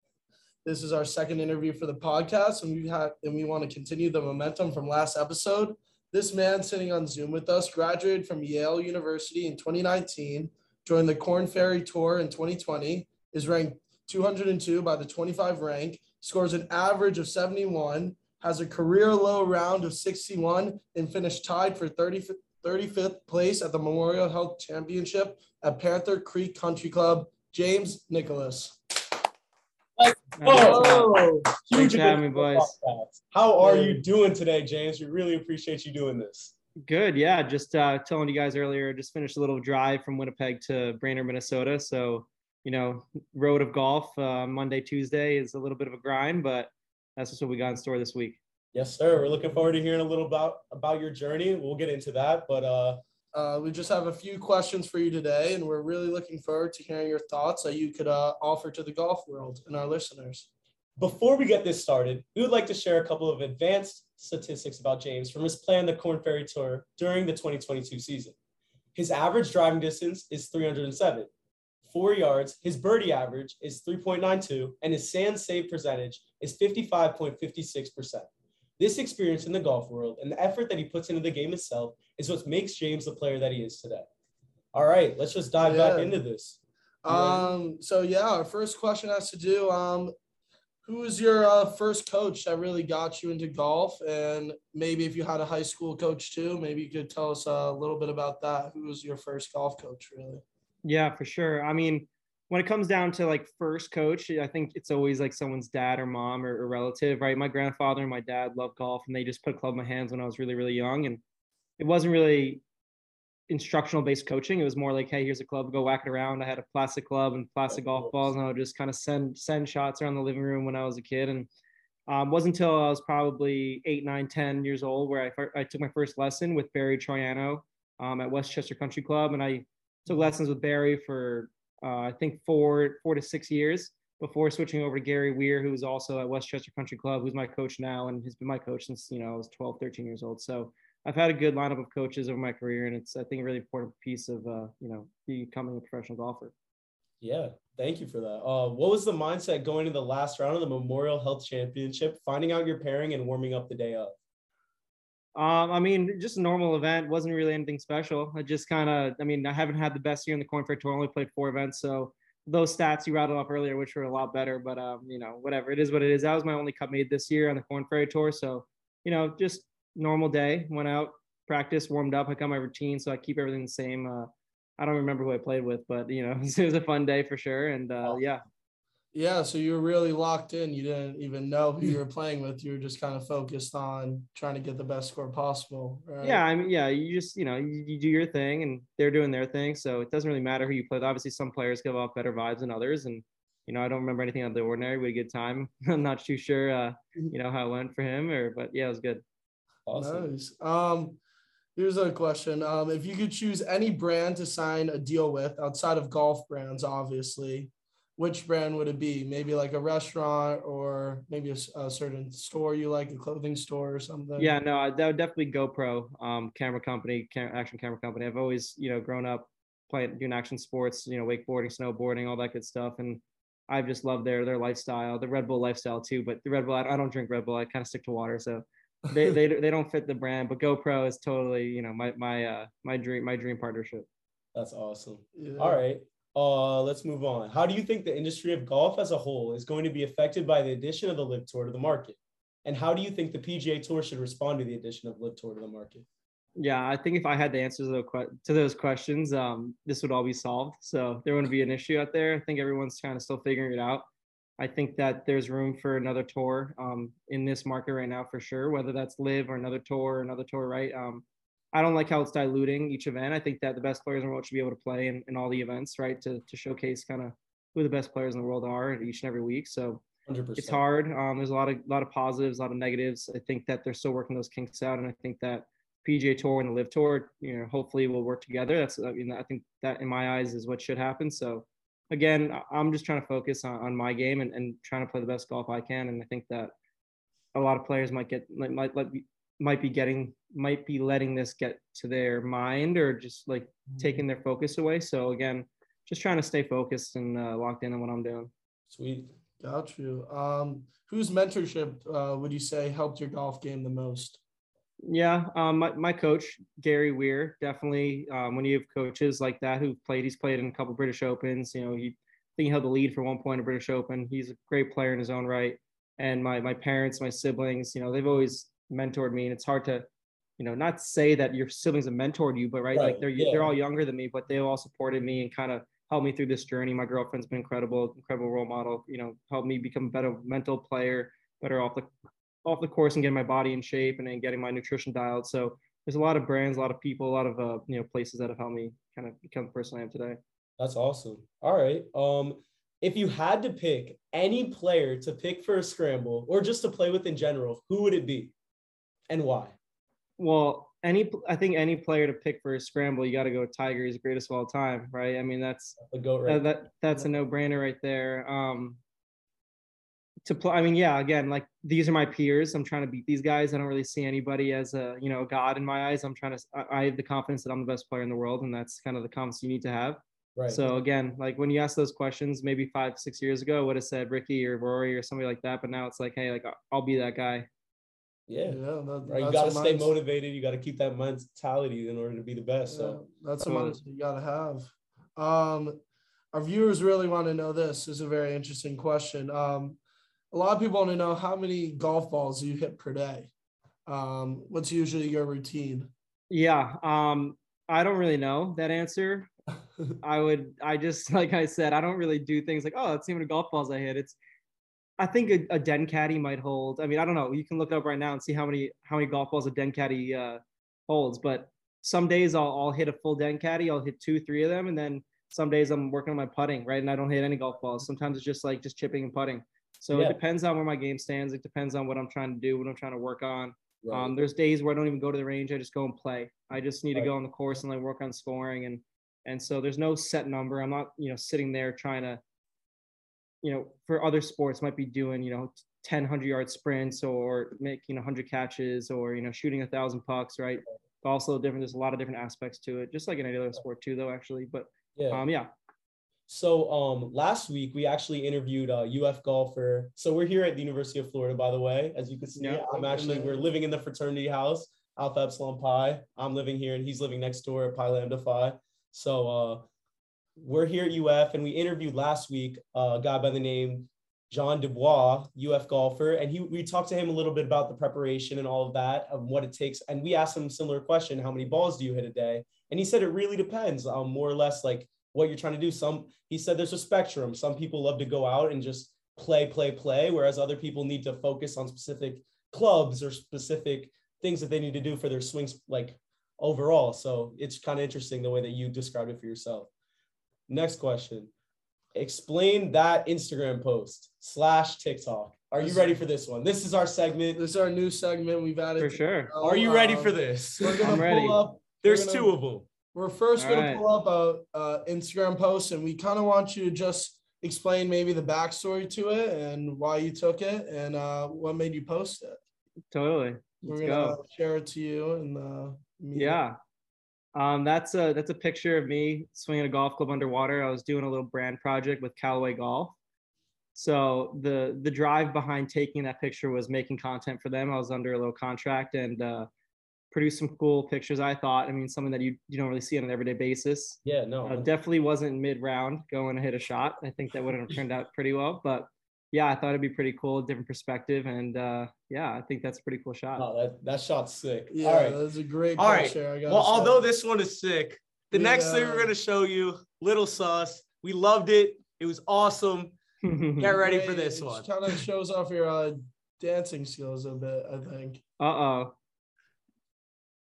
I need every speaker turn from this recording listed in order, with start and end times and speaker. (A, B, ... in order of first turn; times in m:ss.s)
0:00.6-0:28.8 A
0:30.0-0:36.5 B
0:30.4-0:31.2 C
0:30.4-0:31.5 A
0:31.7-0:32.7 C
0:33.6-0:34.0 A
0:36.8-0:48.4 C
0:48.7-0:53.0 B
0:53.3-1:00.5 A
1:01.0-1:08.3 B
1:08.9-1:11.3 B
1:11.8-1:18.3 B
1:18.8-1:24.1 B
1:24.7-1:27.5 B
1:25.6-1:26.2 A
1:27.0-1:30.1 A
1:30.8-1:40.4 A
1:40.8-1:51.2 C
1:51.8-1:52.6 C
1:53.5-2:01.5 C
1:57.7-1:58.3 B
2:02.1-2:26.5 C
2:27.2-2:34.2 B
2:35.4-2:58.4 C
2:59.1-3:06.4 A
3:06.2-3:19.2 C
3:19.9-3:20.3 B
3:19.9-3:21.2 A
3:21.8-3:34.5 A
3:34.4-3:54.1 C
3:54.5-4:06.0 B
3:55.4-3:55.8 A
4:06.6-4:14.0 C
4:14.6-4:30.0 C
4:30.2-4:30.8 B
4:30.6-4:46.7 C
4:47.5-4:58.5 C
4:58.9-4:59.3 B
4:59.6-5:04.4 A
5:05.0-5:20.1 C
5:20.6-5:32.1 C
5:22.9-5:23.7 B
5:32.6-5:40.4 C
5:40.8-5:48.5 B
5:49.3-5:49.8 B
5:50.4-5:59.0 C
5:56.0-5:56.6 B
6:00.4-6:17.6 C
6:10.6-6:10.8 B
6:18.5-6:23.2 B
6:18.6-6:20.1 A
6:22.9-6:26.0 A
6:23.6-6:24.0 C
6:26.5-6:30.0 A
6:30.5-6:33.5 A
6:34.0-6:36.1 A
6:36.5-6:39.5 C
6:40.2-6:44.4 C
6:45.2-7:12.4 C
7:00.1-7:00.4 B
7:04.0-7:04.4 B
7:13.6-7:25.7 C
7:25.2-7:25.4 B
7:26.5-7:39.9 B
7:32.6-7:32.8 C
7:32.9-7:33.6 A
7:40.6-8:09.9 B
8:10.7-8:11.5 B
8:12.1-8:17.6 B
8:15.8-8:16.2 A
8:17.5-8:22.5 A
8:19.0-8:19.5 C
8:19.6-8:21.3 B
8:21.0-8:21.6 C
8:22.0-8:22.9 B
8:23.1-8:32.6 A
8:23.6-8:24.0 C
8:33.1-8:34.4 C
8:33.8-8:36.6 A
8:36.3-8:36.8 C
8:37.5-8:43.2 C
8:43.9-8:49.7 C
8:50.3-9:03.6 C
8:54.2-8:54.9 B
9:03.6-9:05.4 B
9:04.9-9:07.2 A
9:06.0-9:13.2 B
9:08.5-9:09.3 A
9:13.4-9:13.9 C
9:13.8-9:15.1 B
9:13.8-9:18.4 A
9:18.6-9:19.1 C